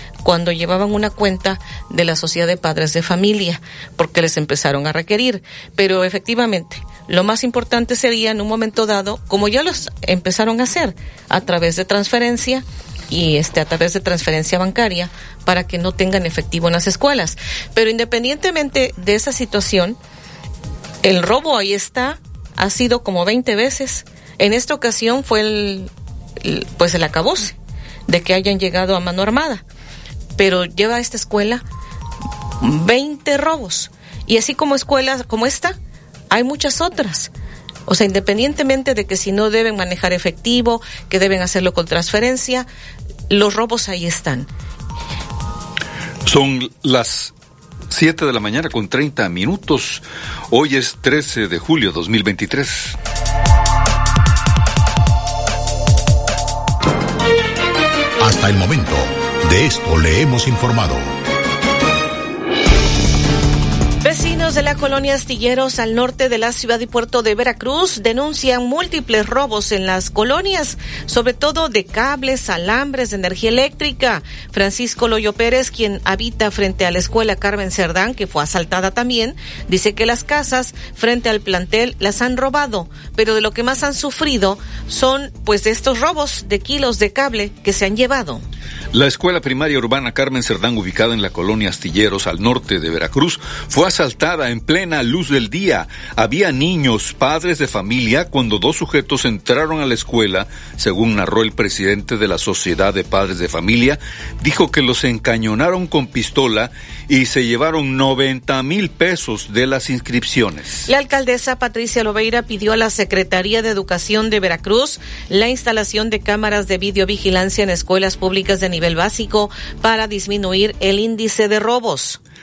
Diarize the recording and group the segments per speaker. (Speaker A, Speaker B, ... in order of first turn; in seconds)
Speaker A: 0.2-20.0, 21.0-25.9, 26.4-27.5, 28.1-29.6, 30.4-31.6, 32.6-35.8, 36.3-37.3, 37.9-42.7, 43.3-44.5, 64.0-88.4, 110.9-122.2
Speaker B: 46.2-47.3, 47.9-53.0, 88.9-110.9
Speaker C: 58.2-61.1